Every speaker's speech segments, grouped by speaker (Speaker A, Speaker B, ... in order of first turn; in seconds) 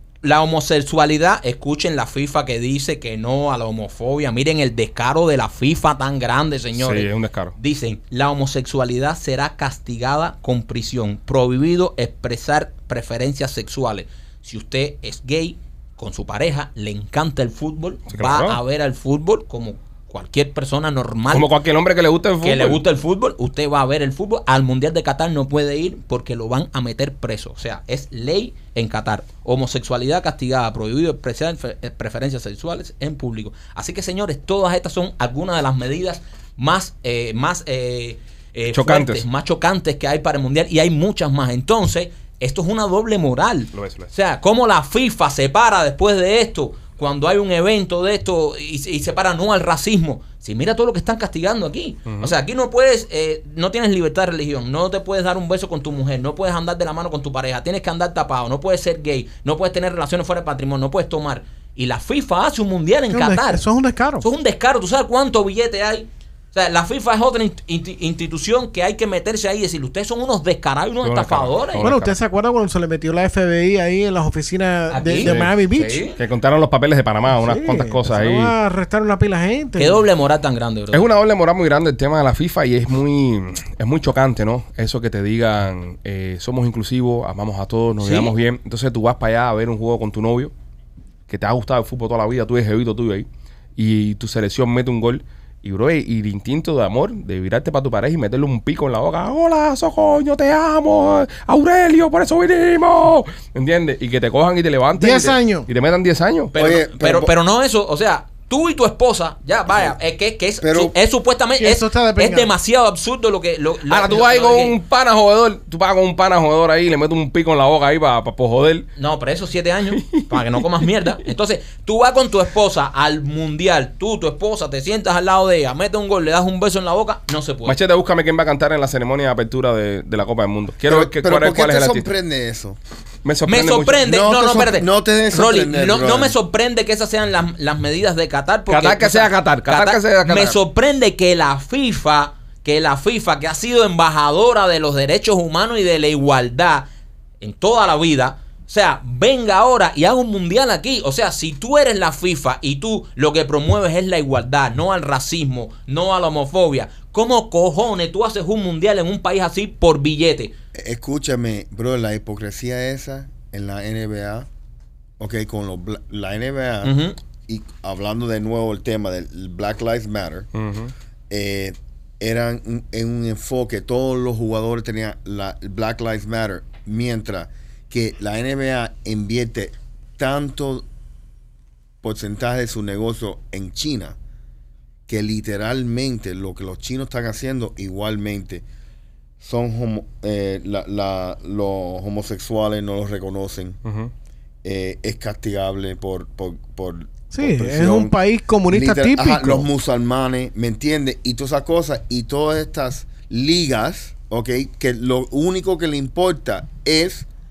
Speaker A: 0.2-21.5, 22.4-63.6, 64.2-71.8, 74.9-76.2, 79.8-81.0, 88.0-88.3, 106.5-114.8, 119.0-127.8, 133.4-146.9, 147.4-160.5, 166.8-167.2
Speaker B: 6.8-7.5, 18.1-18.6, 21.3-22.8, 38.7-39.2, 43.7-44.1, 52.1-52.3, 71.0-72.1, 75.2-75.5, 76.1-78.5, 80.9-90.5, 91.3-93.2, 93.8-106.5, 113.9-118.9, 120.0-120.6, 127.7-132.1, 133.2-134.0, 138.7-140.6, 170.5-170.9, 193.8-194.1
Speaker C: 63.1-64.2, 71.8-76.0, 77.3-80.0, 105.0-105.7, 111.6-112.5, 197.3-199.7
Speaker D: 106.5-107.3, 110.6-110.9, 130.8-132.8, 134.0-136.3, 160.7-164.5, 165.2-170.5, 171.3-180.8, 182.0-184.2, 185.1-188.6, 189.4-193.8, 194.6-198.2, 198.7-207.2